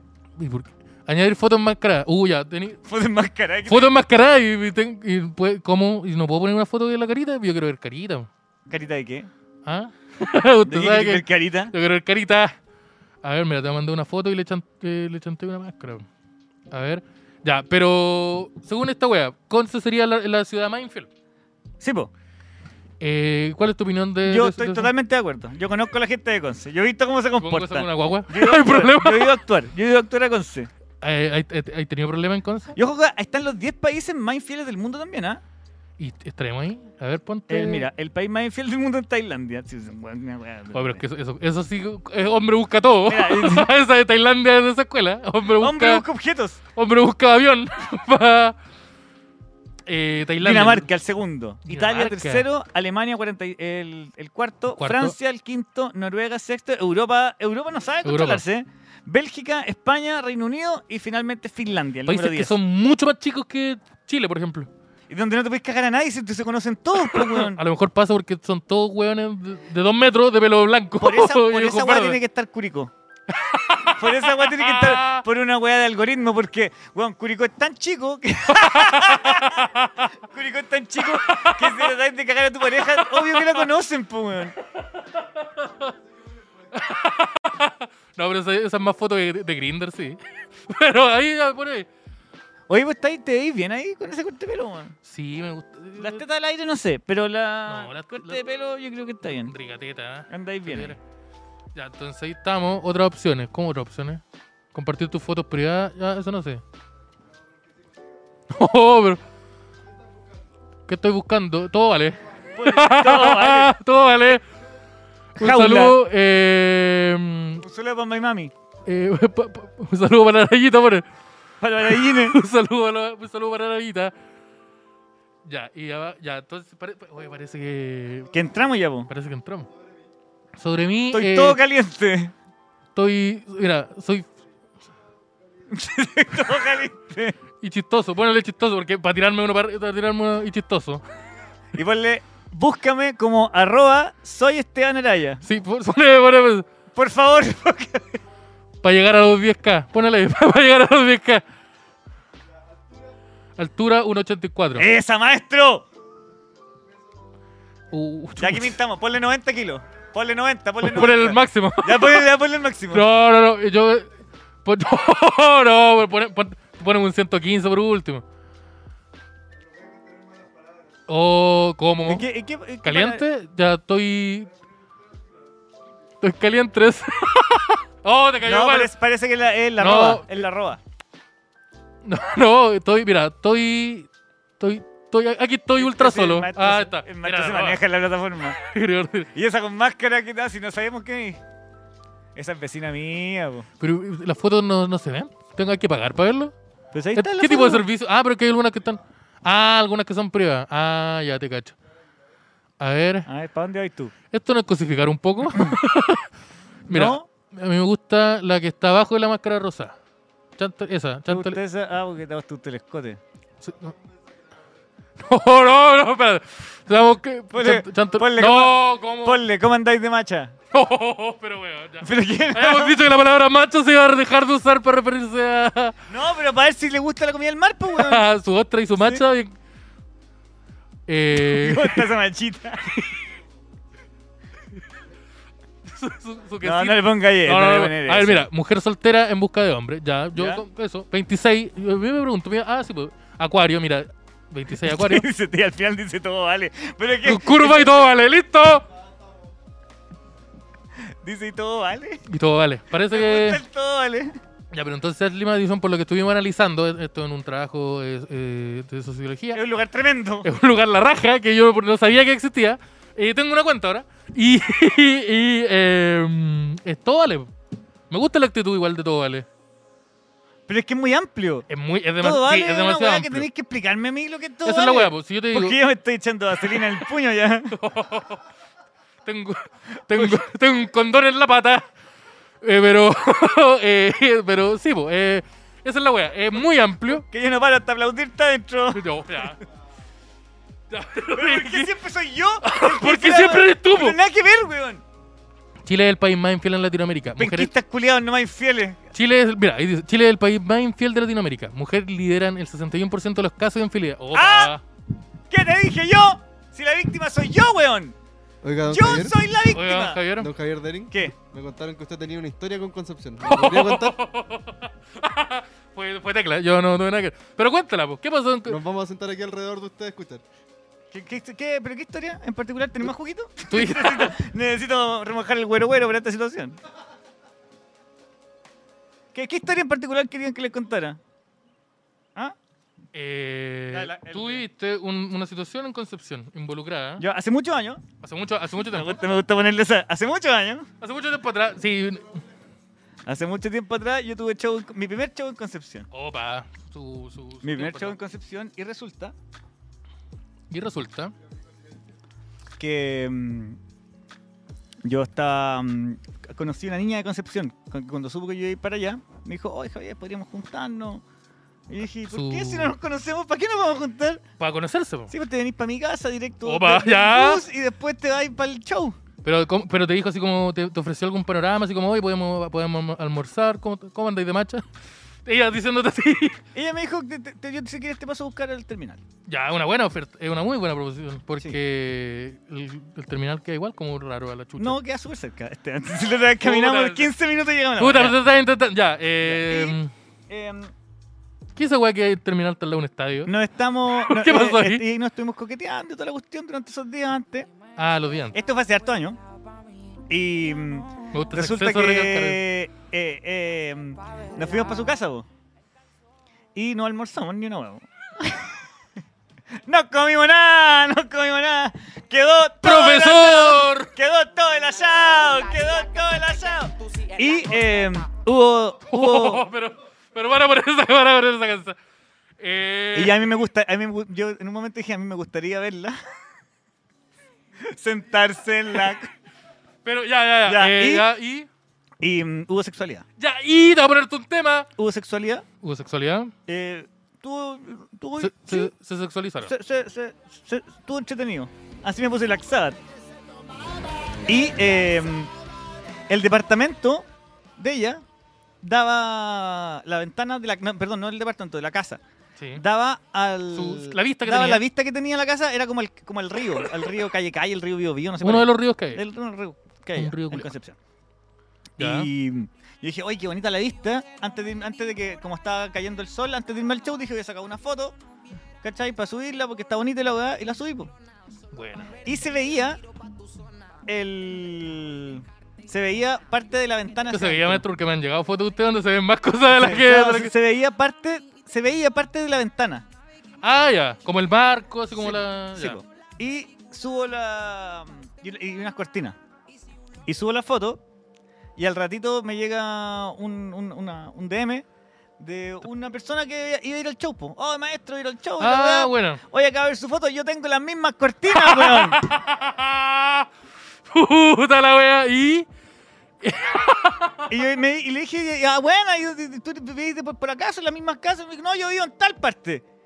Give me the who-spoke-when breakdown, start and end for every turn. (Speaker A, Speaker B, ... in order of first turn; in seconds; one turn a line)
Speaker A: 0.4-2.8
Speaker B: 2.9-3.9
Speaker A: 3.7-8.3
Speaker B: 8.7-9.3
Speaker A: 9.7-12.6
Speaker B: 10.7-11.7
Speaker A: 13.2-16.1
Speaker A: 16.7-21.1
Speaker B: 21.8-22.1
Speaker A: 23.0-24.9
Speaker B: 24.3-30.7
Speaker A: 27.4-29.4
Speaker A: 31.0-32.8
Speaker B: 32.8-35.4
Speaker A: 36.0-37.9
Speaker B: 37.5-41.0
Speaker A: 40.7-46.0
Speaker B: 43.1-43.7
Speaker B: 45.6-46.6
Speaker A: 46.8-48.6
Speaker A: 49.9-50.9
Speaker B: 50.4-62.6
Speaker A: 51.7-52.5
Speaker A: 54.8-55.2
Speaker A: 58.0-58.4
Speaker A: 62.1-64.7
Speaker B: 65.1-67.6
Speaker A: 67.0-72.2
Speaker B: 71.0-72.9
Speaker A: 73.3-75.2
Speaker B: 73.8-84.5
Speaker A: 78.5-80.1
Speaker A: 81.0-81.9
Speaker A: 82.8-83.6
Speaker A: 84.9-85.9
Speaker A: 86.7-91.9
Speaker B: 92.7-95.0
Speaker A: 95.0-96.2
Speaker B: 96.0-99.5
Speaker A: 97.7-98.4
Speaker A: 99.4-101.0
Speaker B: 100.3-101.0
Speaker A: 101.8-104.2
Speaker A: 104.7-106.6
Speaker A: 108.5-109.2
Speaker A: 110.9-114.4
Speaker B: 112.6-113.8
Speaker A: 115.4-117.6
Speaker B: 115.4-116.0
Speaker B: 117.6-118.5
Speaker A: 118.9-121.0
Speaker B: 121.6-122.4
Speaker A: 121.8-124.1
Speaker A: 125.5-128.3
Speaker B: 128.3-129.1
Speaker A: 129.1-129.7
Speaker A: 130.6-131.6
Speaker B: 131.1-132.3
Speaker A: 132.9-134.3
Speaker B: 135.7-137.4
Speaker A: 137.6-141.0
Speaker B: 141.7-145.4
Speaker A: 145.4-146.7
Speaker B: 146.9-148.2
Speaker A: 148.8-151.4
Speaker A: 153.6-154.9
Speaker B: 154.8-155.9
Speaker A: 157.9-158.8
Speaker B: 158.4-163.1
Speaker A: 160.8-162.3
Speaker A: 162.9-164.1
Speaker A: 164.7-168.2
Speaker A: 171.1-172.3
Speaker B: 172.1-173.2
Speaker A: 172.8-174.5
Speaker A: 176.2-178.9
Speaker B: 178.4-180.8
Speaker A: 179.8-180.4
Speaker A: 182.1-187.8
Speaker B: 185.8-188.6
Speaker A: 188.6-189.3
Speaker B: 189.3-191.4
Speaker B: 192.3-193.7
Speaker A: 193.8-196.5
Speaker B: 196.9-197.9
Speaker A: 197.2-201.8
Speaker A: 202.8-203.3
Speaker B: 203.3-204.1
Speaker A: 204.3-206.3
Speaker A: 206.9-210.0
Speaker B: 206.9-207.3
Speaker A: 210.6-211.6
Speaker B: 211.3-213.2
Speaker A: 213.6-213.9
Speaker A: 215.2-219.4
Speaker B: 217.5-220.5
Speaker A: 220.7-226.0
Speaker B: 222.0-223.0
Speaker B: 226.1-228.3
Speaker A: 228.0-229.5
Speaker B: 229.0-229.2
Speaker A: 231.1-232.1
Speaker B: 231.3-232.8
Speaker A: 232.9-233.2
Speaker A: 235.8-245.3
Speaker B: 236.6-238.5
Speaker B: 240.3-240.6
Speaker B: 244.7-248.1
Speaker A: 247.2-248.8
Speaker B: 251.1-252.2
Speaker A: 252.3-253.6
Speaker B: 253.1-254.4
Speaker A: 254.7-259.6
Speaker B: 259.5-260.5
Speaker A: 260.4-267.5
Speaker A: 268.1-269.5
Speaker B: 270.7-271.7
Speaker A: 271.7-273.5
Speaker B: 272.2-277.8
Speaker A: 274.6-275.8
Speaker A: 276.7-277.0
Speaker A: 277.7-278.4
Speaker A: 279.2-281.9
Speaker B: 280.1-280.4
Speaker A: 282.6-287.2
Speaker B: 287.0-289.6
Speaker A: 288.9-289.6
Speaker A: 290.9-291.9
Speaker B: 291.3-295.0
Speaker A: 292.6-294.2
Speaker A: 295.9-297.7
Speaker B: 297.4-299.0
Speaker A: 299.1-304.8
Speaker B: 304.3-304.8
Speaker B: 305.5-308.2
Speaker C: 308.6-309.4
Speaker B: 308.9-310.2
Speaker A: 309.7-310.5
Speaker C: 310.4-314.2
Speaker A: 313.4-318.8
Speaker C: 318.7-320.4
Speaker B: 321.1-326.8
Speaker A: 323.7-324.4
Speaker B: 329.3-331.2
Speaker A: 333.1-337.2
Speaker B: 333.9-334.6
Speaker B: 337.2-338.0
Speaker A: 338.2-339.2
Speaker B: 338.8-340.9
Speaker A: 341.0-342.4
Speaker B: 343.3-346.1
Speaker A: 346.1-348.2
Speaker B: 347.6-349.4
Speaker A: 350.7-351.3
Speaker B: 352.8-353.8
Speaker B: 355.0-361.2
Speaker B: 361.9-364.4
Speaker A: 362.3-362.9
Speaker A: 364.6-365.3
Speaker B: 365.3-369.2
Speaker A: 366.6-367.6
Speaker A: 369.4-374.9
Speaker A: 375.4-376.6
Speaker B: 376.7-379.2
Speaker A: 379.5-385.0
Speaker B: 384.8-388.4
Speaker A: 386.6-387.3
Speaker A: 388.0-390.1
Speaker B: 389.4-390.0
Speaker B: 390.5-390.9
Speaker A: 391.8-393.5
Speaker B: 393.5-397.7
Speaker A: 394.1-395.1
Speaker A: 398.0-398.6
Speaker B: 398.5-399.4
Speaker B: 400.3-405.5
Speaker A: 401.3-402.6
Speaker B: 406.8-408.8
Speaker B: 409.8-419.7
Speaker A: 412.8-414.1
Speaker A: 419.1-422.0
Speaker A: 422.6-423.4
Speaker B: 423.1-426.2
Speaker B: 427.8-429.3
Speaker A: 430.1-431.7
Speaker B: 430.6-431.3
Speaker B: 432.2-433.2
Speaker A: 433.4-434.9
Speaker B: 435.0-435.7
Speaker A: 435.8-436.5
Speaker B: 436.7-438.9
Speaker A: 438.4-439.7
Speaker B: 439.6-443.0
Speaker B: 444.5-445.5
Speaker B: 446.3-447.3
Speaker B: 447.8-448.2
Speaker B: 448.8-452.2
Speaker A: 452.6-452.8
Speaker B: 452.8-461.0
Speaker A: 453.7-454.9
Speaker A: 458.4-459.2
Speaker A: 460.1-460.7
Speaker A: 462.0-462.3
Speaker B: 462.0-468.2
Speaker B: 468.8-471.1
Speaker A: 471.7-472.2
Speaker B: 472.2-473.0
Speaker B: 474.1-477.8
Speaker A: 477.3-480.5
Speaker B: 479.7-483.1
Speaker A: 483.6-486.0
Speaker B: 485.2-489.4
Speaker B: 490.3-491.0
Speaker B: 491.8-494.9
Speaker B: 495.4-502.2
Speaker A: 498.6-499.4
Speaker A: 501.5-503.5
Speaker A: 504.1-505.7
Speaker A: 506.4-507.5
Speaker B: 507.5-512.9